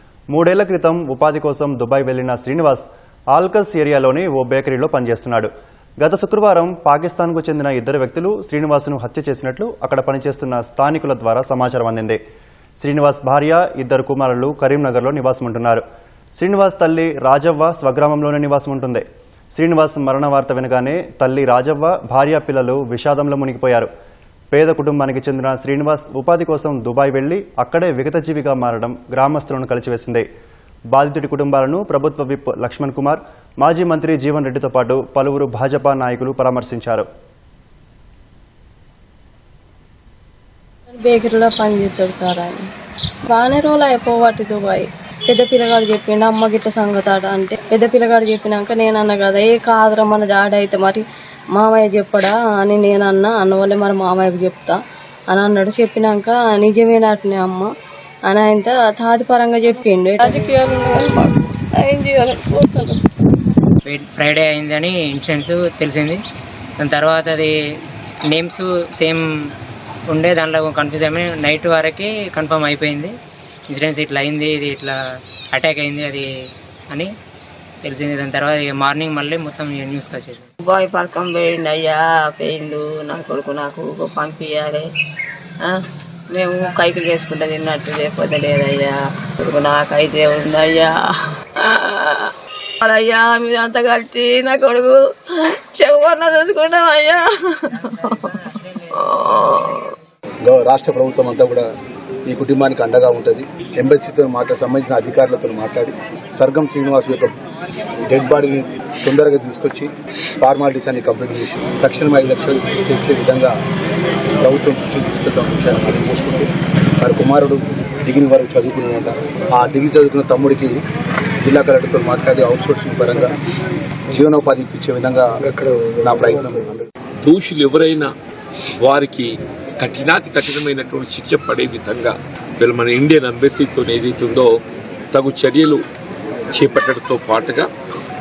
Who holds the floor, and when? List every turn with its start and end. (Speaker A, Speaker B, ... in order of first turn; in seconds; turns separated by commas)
Speaker A: 0.3-12.2, Speaker A: 12.8-15.8, Speaker A: 16.4-23.9, Speaker A: 24.5-30.3, Speaker A: 30.9-37.1, Speaker B: 40.9-42.6, Speaker B: 43.3-51.0, Speaker B: 51.5-54.8, Speaker B: 55.3-57.7, Speaker B: 58.3-62.9, Speaker C: 63.9-66.2, Speaker C: 66.8-67.5, Speaker C: 68.3-69.2, Speaker C: 70.1-73.1, Speaker C: 73.7-75.0, Speaker C: 75.5-76.3, Speaker C: 77.8-80.5, Speaker D: 80.8-84.8, Speaker D: 86.3-88.9, Speaker D: 89.5-90.9, Speaker D: 91.7-92.2, Speaker D: 92.8-94.9, Speaker D: 95.8-97.3, Speaker D: 98.8-99.8, Speaker E: 100.4-101.7, Speaker E: 102.3-107.3, Speaker E: 108.1-113.6, Speaker E: 114.4-120.8, Speaker E: 121.4-123.3, Speaker E: 124.1-125.4, Speaker E: 126.0-126.9, Speaker F: 127.2-128.1, Speaker F: 128.8-129.3, Speaker F: 129.8-134.6, Speaker F: 135.1-135.8, Speaker F: 136.6-137.7